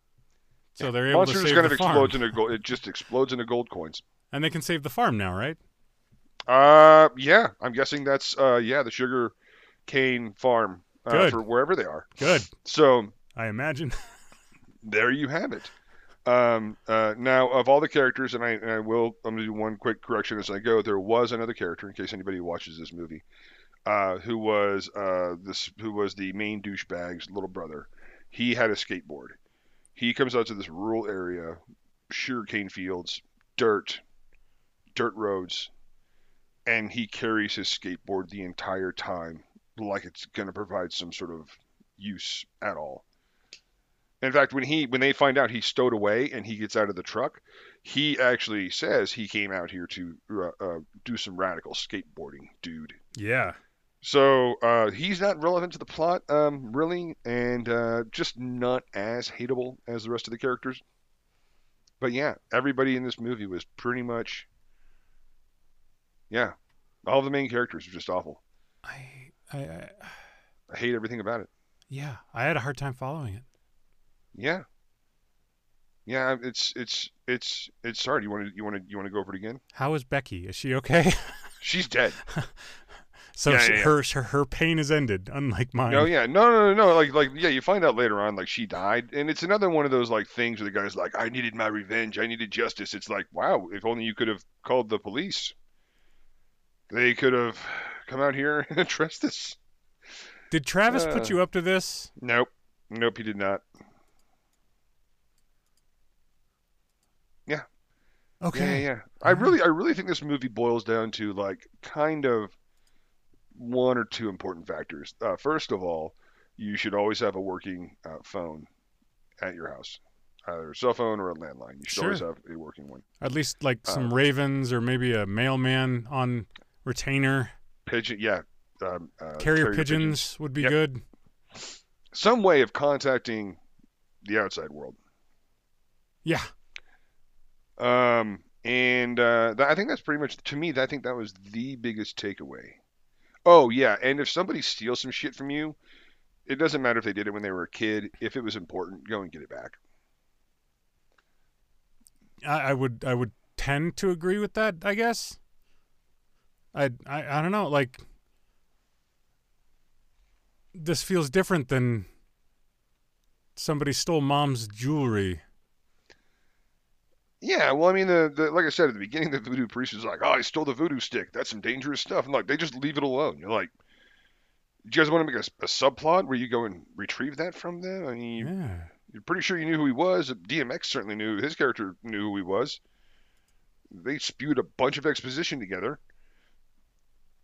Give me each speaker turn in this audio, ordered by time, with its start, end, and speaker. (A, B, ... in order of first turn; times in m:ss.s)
0:00.8-0:02.4 A
0:00.8-0:04.0 B
0:04.3-0:05.6 A
0:06.5-0:09.3 B
0:09.9-0:13.2 B
0:11.1-0:11.4 A
0:12.2-0:12.5 A
0:13.4-0:14.1 A
0:14.8-0:15.7 B
0:16.2-0:23.2 B
0:23.9-0:29.4 B
0:30.0-0:34.0 B
0:34.9-0:35.7 B
0:36.7-0:43.0 B
0:44.2-0:53.0 B
0:53.2-0:53.6 A
0:54.0-1:00.8 B
1:02.0-1:04.5 B
1:06.3-1:08.4 B
1:08.8-1:10.2 A
1:10.7-1:11.5 B
1:11.9-1:13.4 A
1:14.3-1:14.6 B
1:16.1-1:19.6 B
1:19.7-1:21.5 A
1:21.6-1:22.2 B
1:22.3-1:22.8 A
1:23.3-1:26.1 A
1:23.5-1:23.9 B
1:25.9-1:35.6 B
1:36.9-1:39.6 B
1:40.5-1:42.1 A
1:40.9-1:41.4 B
1:42.2-1:43.6 B
1:48.4-1:49.5 A
1:48.5-1:52.5 B
1:53.5-1:58.7 B
1:59.4-2:03.0 B
2:01.9-2:02.2 A
2:03.2-2:07.5 A
2:03.9-2:04.1 B
2:07.9-2:10.8 B
2:09.4-2:11.0 A
2:12.1-2:13.6 B
2:14.2-2:15.0 B
2:16.2-2:16.5 A
2:17.8-2:22.8 B
2:23.4-2:25.8 B
2:26.5-2:29.8 B
2:32.4-2:35.4 A
2:36.7-2:38.0 A
2:40.7-2:42.1 A
2:43.6-2:45.4 A
2:47.4-2:53.7 B
2:54.8-2:58.5 B
2:58.4-2:58.9 A
2:59.0-3:02.8 B
3:03.9-3:06.0 B